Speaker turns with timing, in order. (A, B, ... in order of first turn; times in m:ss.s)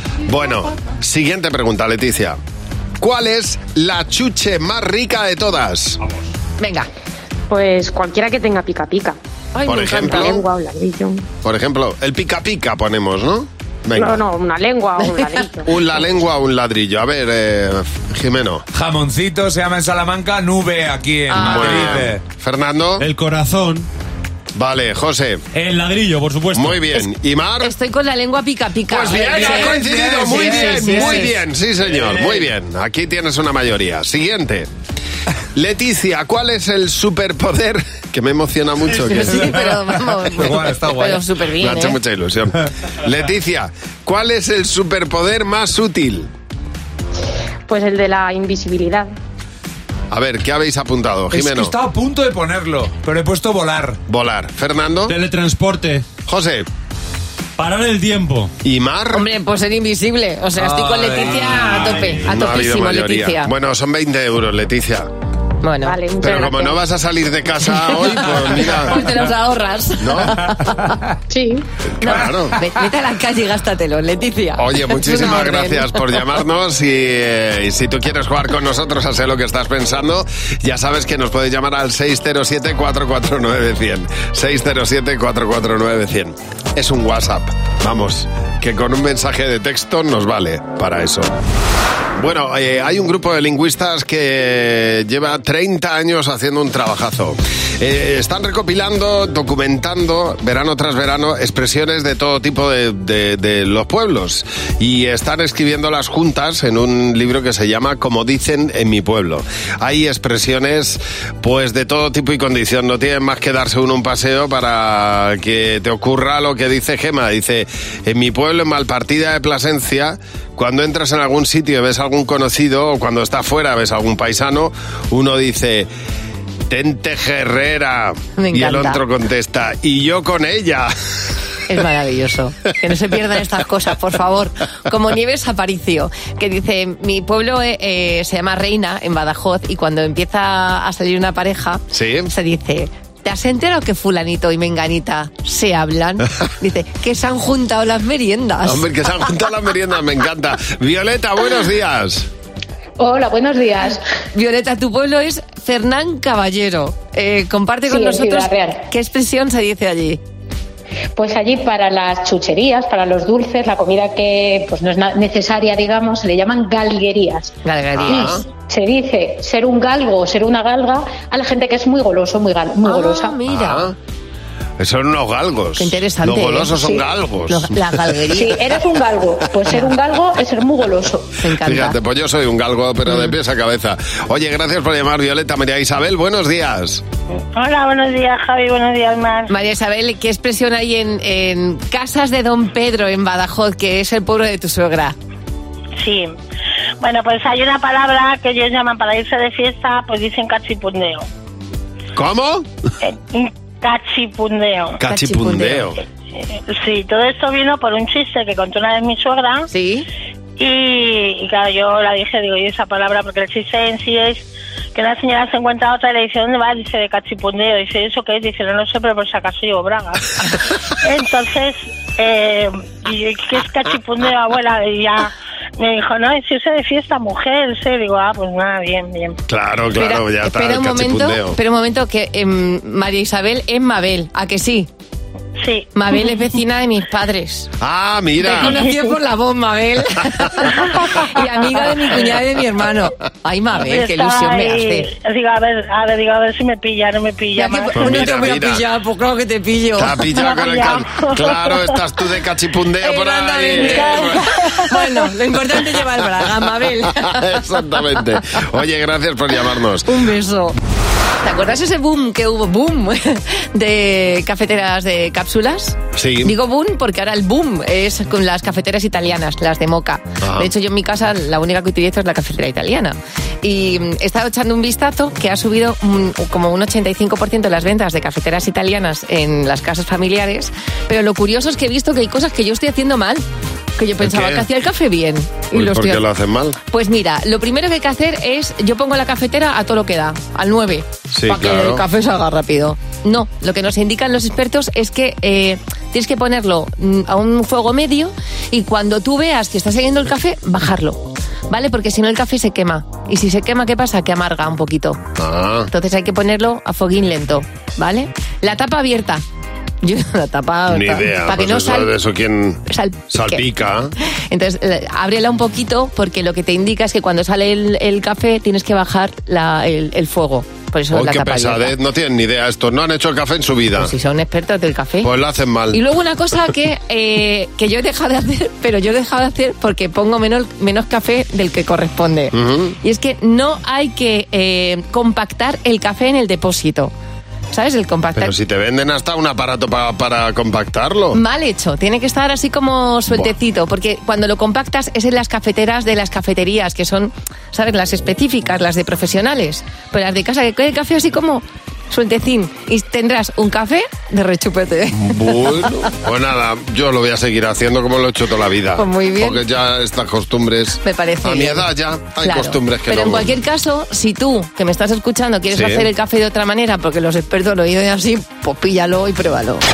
0:00.3-0:02.4 A
0:03.0-0:06.0 A
0:06.6-0:06.9 B
0:07.5-0:11.2 C
0:09.6-0:10.3 B
0:09.6-0:10.4 A
0:11.4-0:14.2 A
0:14.0-0:15.7 C
0:15.2-0:15.4 B
0:15.6-0:18.6 A
0:18.7-0:22.2 D
0:21.3-0:22.0 B
0:21.4-0:23.0 A
0:23.0-0:23.8 E
0:24.5-0:25.4 A
0:25.5-0:26.8 E
0:26.5-0:27.7 A
0:27.6-0:31.3 B
0:28.9-0:34.7 A
0:29.1-0:31.3 D
0:32.0-0:32.4 E
0:35.5-0:39.5 A
0:39.0-0:42.0 B
0:39.4-0:41.2 D
0:41.6-0:46.3 A
0:47.7-0:49.1 C
0:50.1-0:51.7 A
0:51.3-0:54.0 D
0:54.1-0:55.1 A
0:55.1-0:56.0 E
0:56.2-0:56.6 A
0:57.6-0:58.5 E
0:58.6-0:59.2 A
0:59.1-1:03.5 B
1:00.6-1:01.5 D
1:02.1-1:05.1 A
1:05.6-1:06.0 B
1:05.8-1:06.8 C
1:06.2-1:09.0 A
1:07.9-1:11.0 B
1:10.0-1:10.4 A
1:11.3-1:11.6 C
1:12.0-1:16.0 B
1:12.0-1:12.5 A
1:14.6-1:31.3 A
1:32.2-2:05.9 A
2:06.7-2:10.9 A
2:08.4-2:09.0 B
2:11.7-2:28.9 B
2:21.9-2:22.3 A
2:28.6-2:32.3 A
2:33.0-2:34.0 C
2:34.3-2:40.2 B
2:37.9-2:38.8 C
2:41.1-2:47.5 C
2:47.6-2:48.4 B
2:48.0-2:48.4 A
2:48.1-2:53.4 C
2:52.8-2:53.9 B
2:53.5-2:53.9 A
2:54.8-2:57.9 A
2:55.8-2:58.6 B
2:58.3-3:01.3 C
3:01.4-3:02.0 B
3:01.6-3:07.0 A
3:03.1-3:03.3 B
3:07.5-3:09.5 F
3:09.5-3:15.2 B
3:16.0-3:16.3 F
3:17.0-3:21.2 F
3:22.1-3:22.7 A
3:23.0-3:25.0 F
3:25.0-3:26.0 A
3:25.0-3:25.9 B
3:26.4-3:29.7 F
3:29.7-3:30.0 B
3:30.6-3:40.3 F
3:41.0-3:49.4 F
3:49.5-3:51.6 A
3:50.0-3:54.9 B
3:55.6-3:55.9 F
3:55.9-3:57.7 B
3:57.8-3:58.8 A
3:58.4-4:05.1 B
4:00.8-4:01.1 F
4:03.8-4:08.4 F
4:07.6-4:10.2 B
4:07.9-4:08.8 A
4:10.0-4:14.5 A
4:10.3-4:12.0 F
4:13.0-4:18.6 B
4:13.8-4:14.3 F
4:17.2-4:20.1 A
4:20.0-4:20.8 B
4:21.4-4:43.4 B
4:26.1-4:26.5 A
4:30.4-4:30.7 A
4:44.0-4:46.2 B
4:44.2-4:44.6 A
4:45.7-4:46.8 A
4:46.9-5:05.2 B
4:51.3-4:52.0 A
5:05.4-5:05.9 A
5:05.9-5:09.4 B
5:10.0-5:12.1 B
5:10.9-5:14.1 A
5:12.9-5:13.6 B
5:14.5-5:21.9 B
5:21.1-5:24.1 A
5:24.0-5:25.3 B
5:25.2-5:26.0 A
5:25.9-5:37.1 B
5:32.5-5:33.0 A
5:37.7-5:38.5 B
5:38.3-5:41.4 A
5:41.3-5:55.8 B
5:55.1-6:03.5 A
5:59.0-5:59.6 B
6:01.0-6:01.8 B
6:02.4-6:09.8 B
6:05.7-6:06.1 A